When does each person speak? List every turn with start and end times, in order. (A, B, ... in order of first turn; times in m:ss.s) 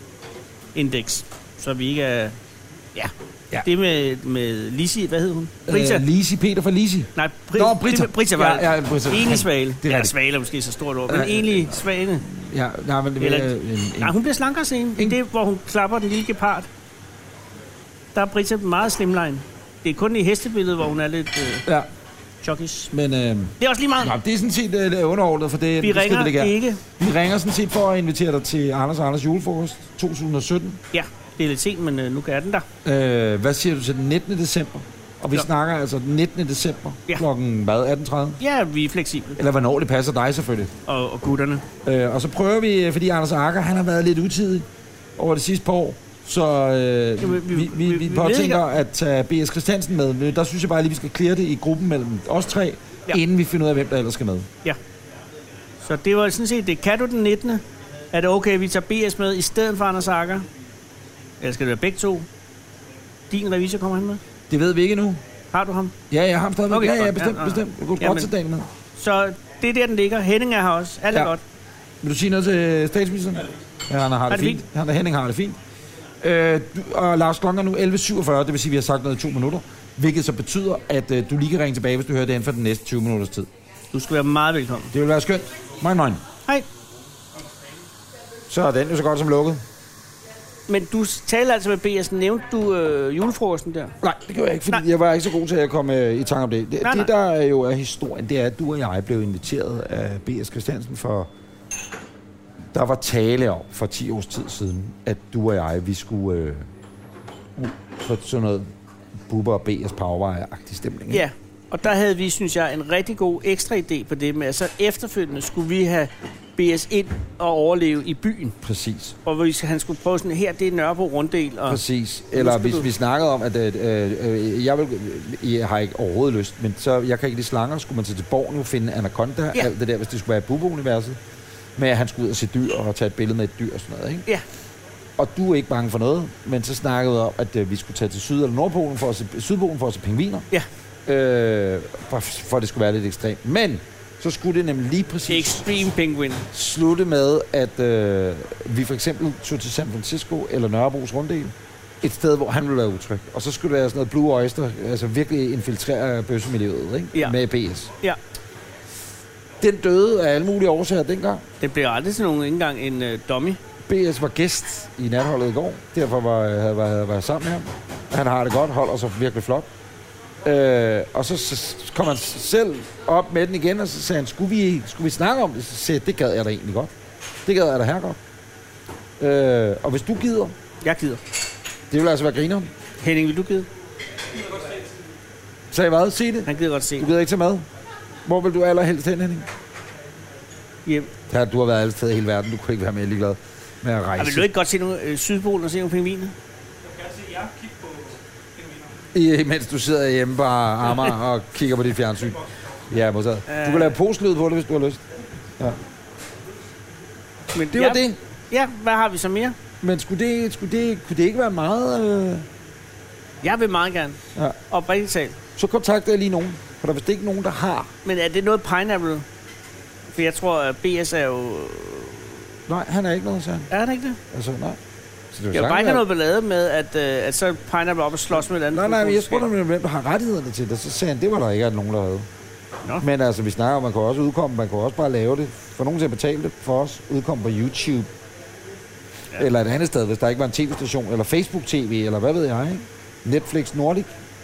0:00.8-0:02.4 A
0:03.6-0:06.1 A
0:05.7-0:10.1 B
0:07.2-0:12.3 A
0:11.1-0:14.2 B
0:13.2-0:16.7 A
0:18.1-0:21.7 A
0:22.4-0:22.9 A
0:22.9-0:30.8 B
0:23.6-0:24.1 A
0:25.8-0:26.8 A
0:30.9-0:32.7 A
0:32.8-0:38.4 B
0:38.4-0:39.4 A
0:39.4-0:40.7 B
0:40.9-0:41.6 A
0:41.8-0:54.5 B
0:47.2-0:48.6 A
0:55.8-1:00.5 A
1:01.4-1:02.3 A
1:03.3-1:04.2 A
1:04.5-1:05.2 B
1:05.5-1:05.9 A
1:06.1-1:08.7 B
1:06.7-1:08.3 A
1:09.0-1:11.4 A
1:12.0-1:15.6 B
1:14.3-1:14.6 A
1:16.2-1:23.5 B
1:23.9-1:24.9 A
1:24.9-1:26.2 B
1:28.5-1:29.6 B
1:30.7-1:33.9 A
1:34.0-1:41.3 B
1:36.8-1:37.1 A
1:42.7-1:46.7 B
1:47.6-1:48.7 B
1:49.3-1:51.3 B
1:51.1-1:58.6 A
1:58.6-1:59.2 B
1:59.2-2:01.8 A
2:01.7-2:11.2 B
2:02.3-2:02.9 A
2:11.8-2:14.3 B
2:15.2-2:20.5 B
2:21.1-2:25.9 B
2:25.3-2:26.5 A
2:26.5-2:37.9 B
2:39.6-2:41.4 B
2:41.6-2:43.6 A
2:43.9-2:49.7 B
2:50.4-2:56.9 B
2:57.4-2:58.2 B
2:59.2-3:00.6 B
3:00.8-3:01.2 A
3:01.9-3:02.7 B
3:03.0-3:03.7 A
3:05.7-3:07.7 B
3:06.5-3:07.1 A
3:08.2-3:09.5 B
3:11.3-3:14.5 B
3:14.2-3:16.4 A
3:16.8-3:19.1 C
3:19.1-3:25.0 B
3:23.5-3:24.0 A
3:27.5-3:29.6 A
3:27.7-3:28.2 B
3:29.8-3:32.5 B
3:33.4-3:34.2 A
3:34.7-3:35.4 A
3:35.6-3:37.9 B
3:38.0-3:39.3 A
3:40.1-3:42.4 A
3:42.7-3:43.7 B
3:43.7-3:44.2 A
3:44.3-3:44.8 B
3:45.3-3:46.1 B
3:45.5-3:49.5 A
3:48.6-3:52.3 B
3:53.0-3:58.1 B
3:59.4-4:04.1 B